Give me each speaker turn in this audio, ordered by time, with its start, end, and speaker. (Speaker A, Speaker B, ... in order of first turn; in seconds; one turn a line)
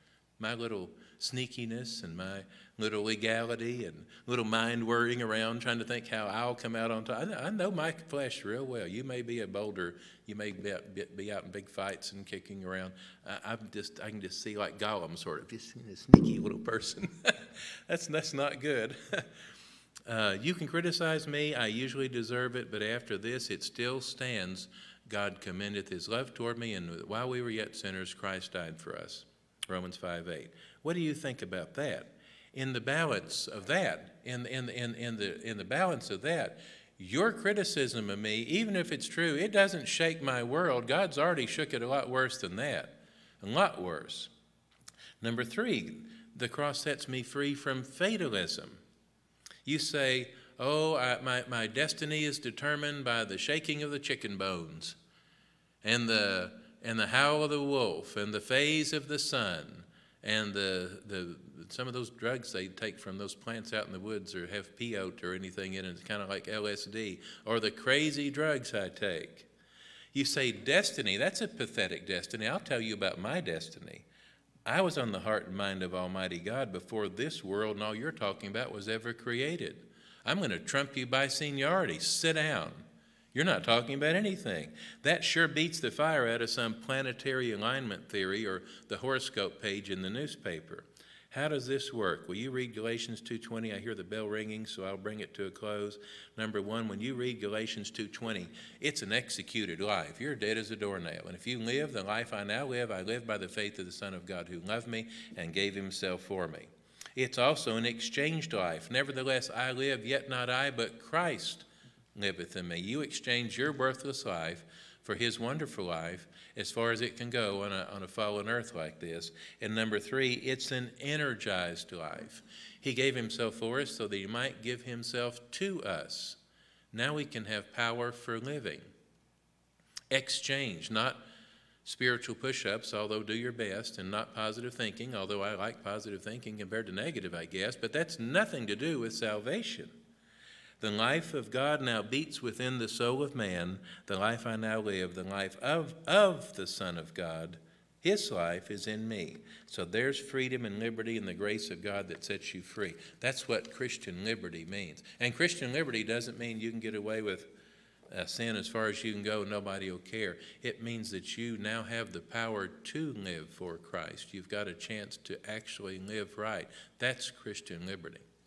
Speaker A: 0.4-19.2
Speaker A: 20.1-44.3
Speaker A: 45.2-48.8
Speaker A: 49.6-55.0
Speaker A: 55.8-69.5
Speaker A: 70.1-74.0
Speaker A: 74.7-126.4
Speaker A: 126.9-128.9
Speaker A: 130.1-131.2
Speaker A: 131.8-139.9
Speaker A: 140.8-157.5
Speaker A: 158.1-168.2